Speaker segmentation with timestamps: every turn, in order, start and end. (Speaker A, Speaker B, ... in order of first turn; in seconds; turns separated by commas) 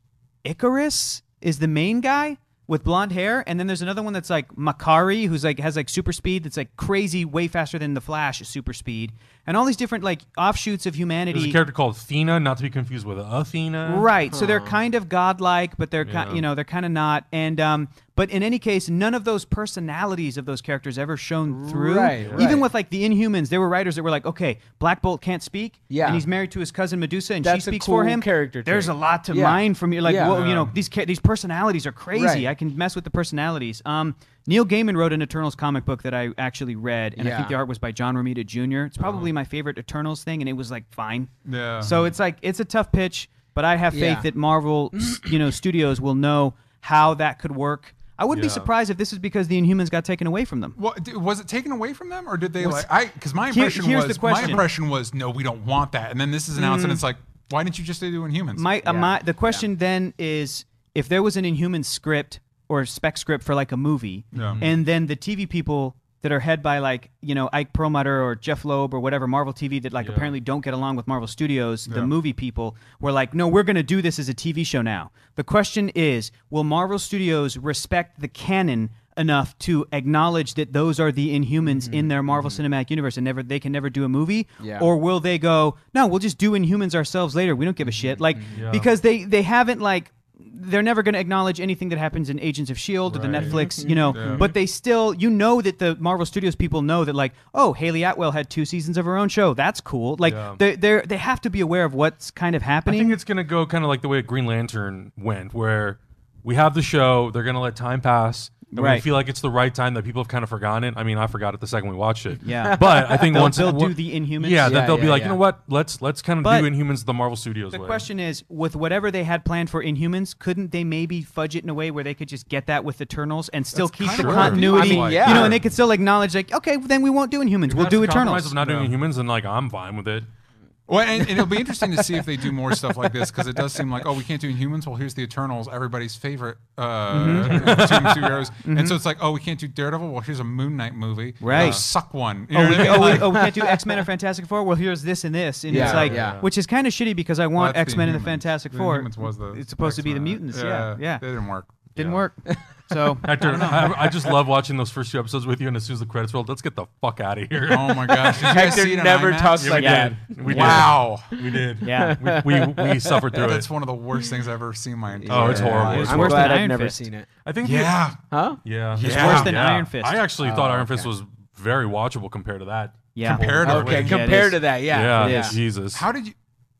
Speaker A: 0.4-11.6, Speaker B: 11.3-14.1, Speaker A: 13.8-50.8, Speaker C: 14.3-14.8, Speaker B: 16.0-16.4, Speaker C: 21.5-22.7, Speaker B: 22.2-22.4, Speaker C: 25.9-26.3, Speaker C: 27.4-30.4, Speaker D: 30.2-30.7, Speaker C: 32.1-32.5, Speaker C: 37.2-37.6, Speaker D: 41.5-42.0, Speaker C: 43.9-44.3, Speaker B: 48.3-48.7, Speaker D: 50.8-58.7, Speaker A: 52.6-52.9, Speaker A: 53.5-54.7, Speaker A: 56.6-57.0, Speaker A: 58.5-103.2, Speaker C: 58.8-59.6, Speaker D: 64.3-64.6, Speaker B: 64.4-64.8, Speaker B: 70.0-70.3, Speaker D: 71.9-72.1, Speaker C: 81.6-82.6, Speaker C: 84.6-84.9, Speaker C: 87.8-88.6, Speaker B: 88.5-88.9, Speaker B: 93.1-93.7, Speaker C: 93.5-94.5, Speaker D: 94.1-94.5, Speaker B: 100.2-100.6, Speaker B: 102.9-118.0, Speaker A: 108.7-109.0, Speaker A: 112.4-114.9, Speaker C: 112.6-113.6, Speaker C: 114.6-115.4, Speaker A: 116.4-116.7, Speaker A: 117.7-128.6, Speaker D: 123.7-125.6, Speaker B: 124.1-124.6, Speaker C: 124.5-125.6, Speaker B: 127.7-130.3, Speaker D: 128.6-128.9, Speaker D: 130.9-143.4, Speaker A: 137.1-137.8, Speaker B: 137.2-138.4, Speaker A: 138.6-139.0, Speaker A: 141.4-141.8, Speaker B: 141.5-141.8, Speaker A: 142.5-151.2, Speaker C: 143.0-144.0, Speaker C: 145.7-146.4, Speaker B: 145.7-146.4, Speaker D: 145.8-146.1, Speaker D: 147.6-151.8, Speaker B: 151.9-152.2, Speaker A: 151.9-153.9, Speaker B: 153.2-158.8, Speaker D: 153.4-154.1, Speaker D: 157.6-159.8, Speaker C: 158.3-163.2, Speaker B: 159.6-163.7, Speaker A: 159.8-160.9, Speaker D: 160.5-161.4, Speaker A: 161.8-162.2, Speaker D: 163.3-166.3, Speaker C: 165.2-167.3, Speaker B: 165.3-166.6, Speaker A: 166.0-167.1, Speaker B: 167.4-168.0, Speaker D: 167.6-168.2, Speaker C: 168.3-168.6, Speaker B: 168.6-176.0, Speaker D: 168.9-169.6, Speaker A: 169.0-170.2, Speaker C: 170.4-171.1, Speaker A: 173.1-175.5, Speaker D: 173.2-174.3, Speaker C: 173.6-175.6, Speaker D: 175.9-176.4